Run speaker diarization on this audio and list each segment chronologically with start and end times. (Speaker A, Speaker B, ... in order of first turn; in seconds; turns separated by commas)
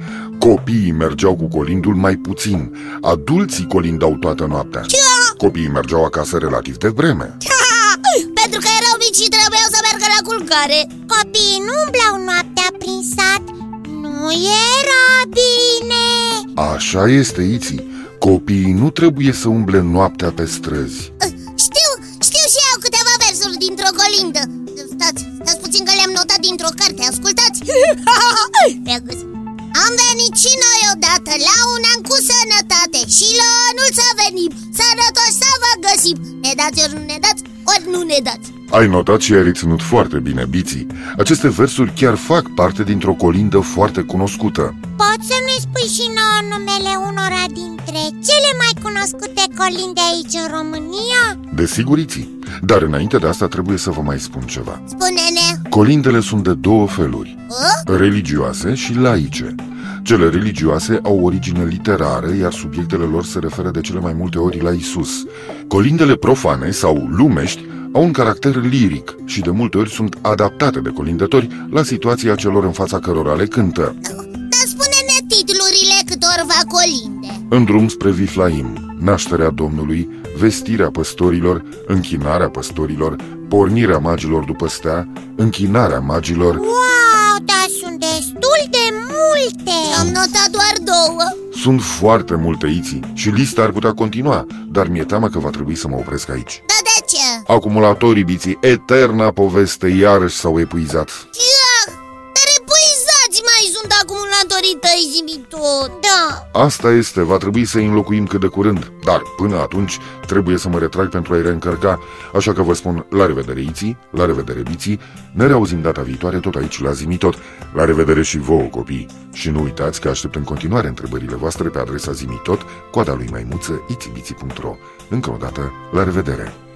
Speaker A: 0.4-7.4, Speaker B: 4.9-5.3, Speaker B: 7.4-10.9, Speaker C: 11.1-16.5, Speaker A: 16.6-21.1, Speaker B: 21.2-38.5, Speaker A: 38.7-44.8, Speaker C: 45.0-51.4, Speaker A: 51.5-54.8, Speaker B: 54.9-55.6, Speaker A: 55.7-74.0, Speaker B: 57.5-57.8, Speaker B: 74.0-77.4, Speaker A: 77.5-86.6, Speaker C: 86.5-90.1, Speaker B: 89.9-91.3, Speaker A: 91.5-96.6, Speaker B: 96.7-97.5, Speaker A: 97.5-101.2, Speaker B: 101.3-105.9, Speaker C: 105.9-106.5, Speaker A: 106.5-126.5